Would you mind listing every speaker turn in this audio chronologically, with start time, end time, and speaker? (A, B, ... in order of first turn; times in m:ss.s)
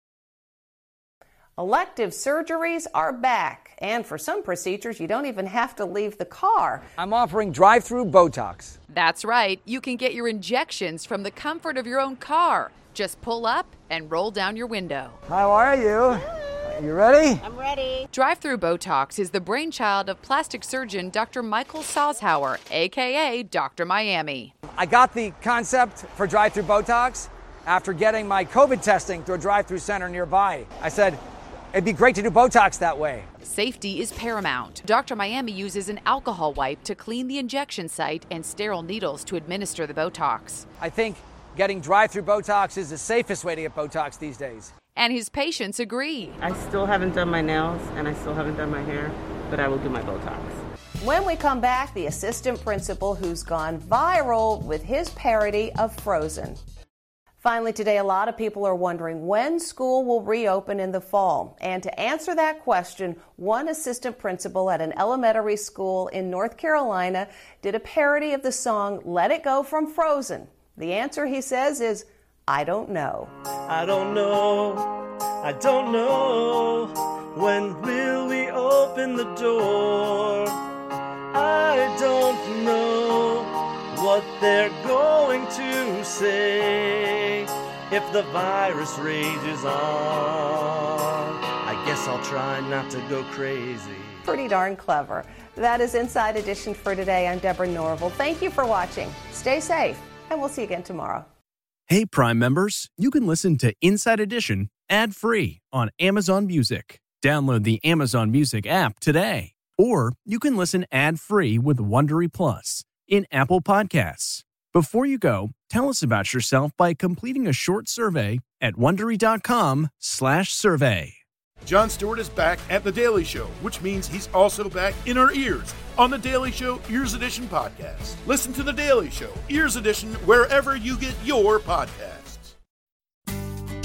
0:01.6-0:06.9 A
0:07.0-0:08.8 B
0:08.9-0:15.2 C
0:15.3-0:17.4 B
0:18.1-0:24.5 C
0:24.7-0:31.2 B
0:31.7-0:33.3 B
0:33.4-0:40.6 C
0:40.8-0:44.7 B
0:45.0-0:46.4 C
0:46.4-0:50.6 D
0:51.0-0:56.6 A
0:57.4-1:13.3 A
1:13.7-1:20.5 E
1:21.3-1:27.2 E
1:27.9-1:30.8 E
1:31.5-1:34.2 E
1:34.2-1:41.3 A
1:41.9-2:01.2 B
2:01.6-2:12.5 F